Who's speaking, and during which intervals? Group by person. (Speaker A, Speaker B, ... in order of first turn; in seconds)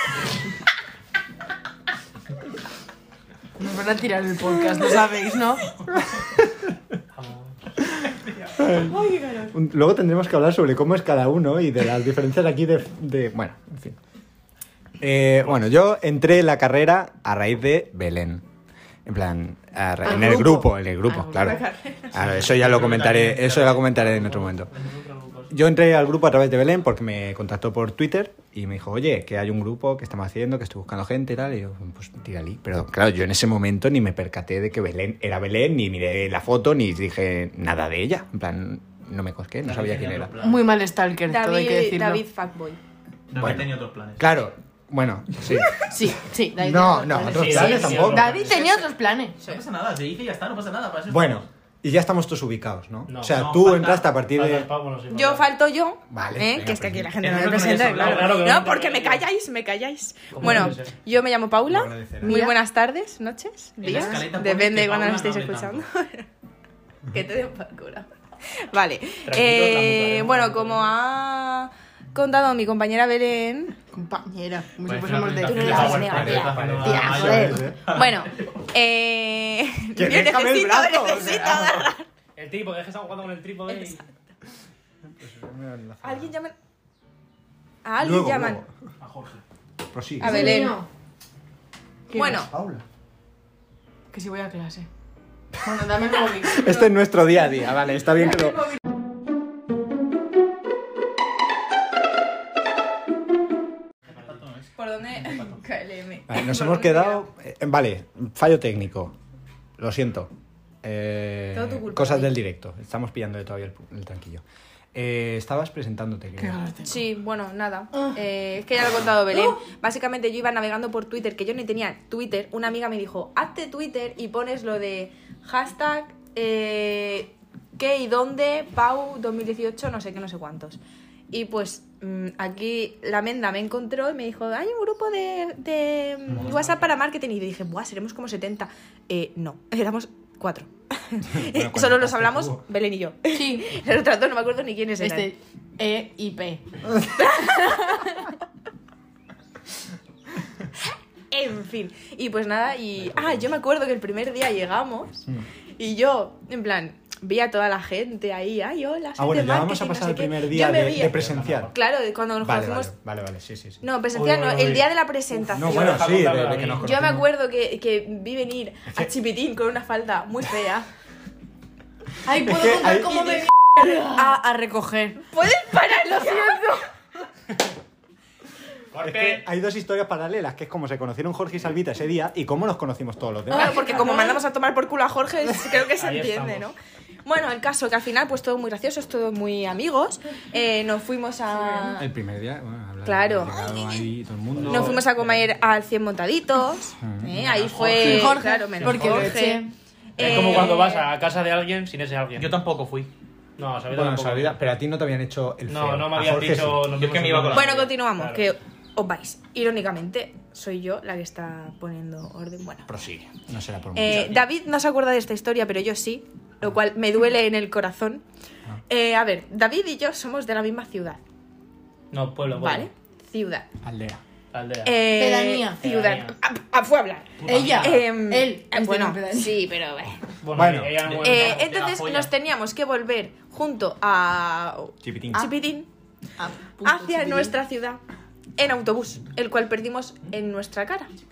Speaker A: 3.6-5.6, 20.0-21.6, 40.4-42.2, 45.9-49.4, 62.2-62.5, 73.9-77.6, 90.2-90.9, 92.1-92.4, 94.1-94.9, 95.6-96.8, 116.4-116.9, 143.3-143.7, 145.0-146.6, 147.4-148.1, 172.2-175.2, 176.2-176.6, 183.5-184.4, 197.9-199.7, 225.1-225.8, 227.4-229.6, 236.4-237.6
Speaker B: 7.1-7.8, 24.0-25.6, 47.3-48.7, 53.1-53.4, 54.3-55.5, 58.0-59.2, 60.3-60.9, 63.8-64.2, 69.2-70.9, 82.3-84.0, 164.1-164.9, 165.5-166.9, 185.9-186.7, 194.5-195.4, 197.4-199.4, 200.2-202.5, 203.6-204.6, 205.7-208.5, 222.1-222.9, 224.5-225.0, 225.8-226.4, 227.4-228.0, 230.4-231.6
Speaker C: 8.6-9.0, 9.5-14.0, 15.0-18.4, 19.1-24.7, 25.5-40.3, 43.4-45.8, 46.6-48.3, 51.1-54.7, 56.1-57.3, 61.7-62.4, 76.0-77.8, 80.0-81.8, 85.2-86.3, 88.0-88.7, 89.9-90.5, 92.3-92.8, 96.4-98.7, 106.3-109.1, 109.8-110.3, 110.8-116.6, 141.3-142.6, 159.2-161.7, 162.4-163.8, 165.5-167.3, 172.4-173.4, 179.0-183.9, 192.0-195.0, 197.0-197.4, 203.9-206.9, 212.9-214.3, 230.5-231.0, 235.0-235.5
Speaker D: 8.7-9.5, 21.4-22.2, 41.3-42.8, 55.1-66.2, 67.1-68.1, 68.7-73.8, 75.4-82.1, 83.7-84.1, 86.0-86.5, 87.8-88.6, 90.2-90.8, 92.1-92.5, 104.8-107.2, 111.5-112.3, 116.8-130.8, 131.3-145.3, 147.1-148.3, 150.8-155.2, 155.8-161.2, 161.7-162.9, 163.8-166.2, 166.8-170.9, 174.0-174.3, 175.2-176.8, 183.5-186.7, 187.2-192.1, 193.0-194.1, 194.7-199.6, 200.2-201.1, 207.5-212.8, 213.9-218.2, 218.9-221.2, 222.5-223.7, 224.8-230.2, 231.2-235.9, 236.8-238.0, 238.6-241.1
Speaker E: 22.1-24.3, 39.6-40.7, 43.3-44.4, 49.4-51.4, 53.3-54.1, 57.2-58.4, 63.8-65.9, 74.8-78.6, 89.0-89.4, 104.1-105.6, 136.5-136.8, 153.1-153.4, 161.1-161.7, 178.9-179.4, 197.5-198.4, 202.3-203.1, 206.9-207.8, 223.8-224.2, 231.0-232.3